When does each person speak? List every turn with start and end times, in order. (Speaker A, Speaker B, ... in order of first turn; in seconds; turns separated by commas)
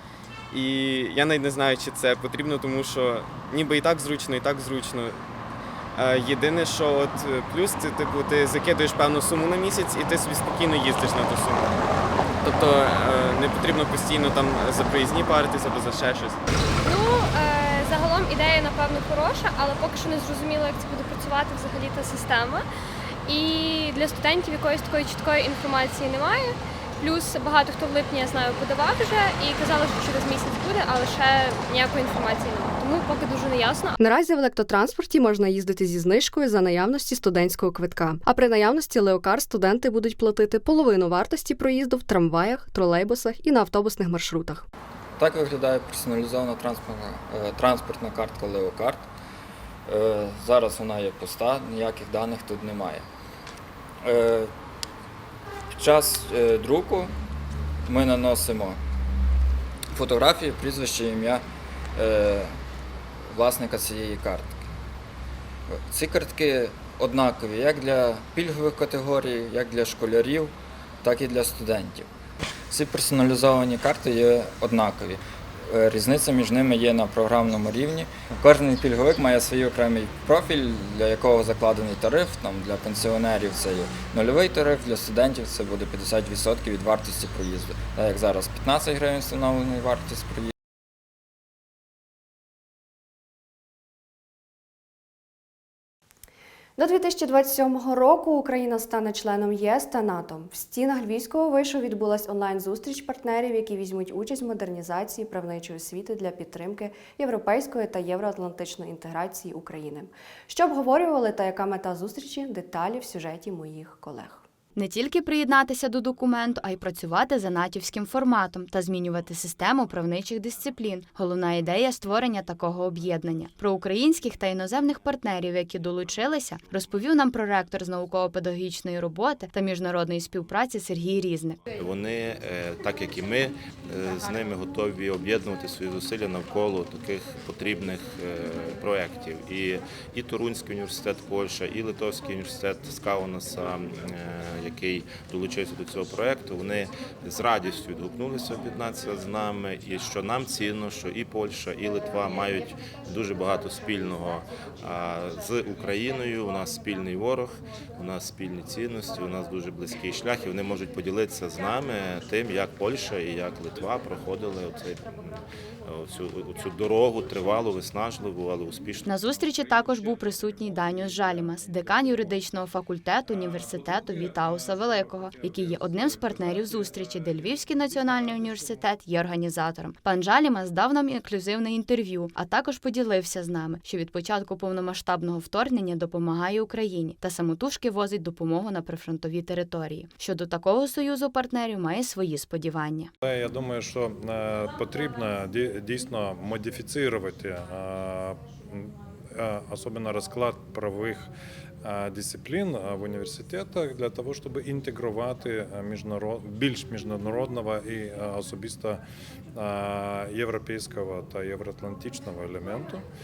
Speaker A: 0.5-5.1, Speaker A: 6.0-11.7, Speaker A: 12.4-16.3, Speaker B: 16.8-22.6, Speaker B: 23.2-34.0, Speaker C: 34.0-44.6, Speaker D: 45.2-49.1, Speaker D: 49.9-53.0, Speaker D: 54.0-54.5, Speaker D: 55.8-57.1, Speaker D: 57.9-58.8, Speaker D: 59.9-61.4, Speaker D: 62.0-62.5, Speaker D: 63.3-64.6, Speaker D: 65.7-72.1, Speaker D: 72.7-90.5, Speaker C: 96.8-114.4, Speaker E: 114.8-131.6, Speaker F: 131.7-169.1, Speaker E: 169.1-193.1, Speaker G: 193.2-201.3, Speaker G: 201.8-209.0, Speaker G: 209.5-213.0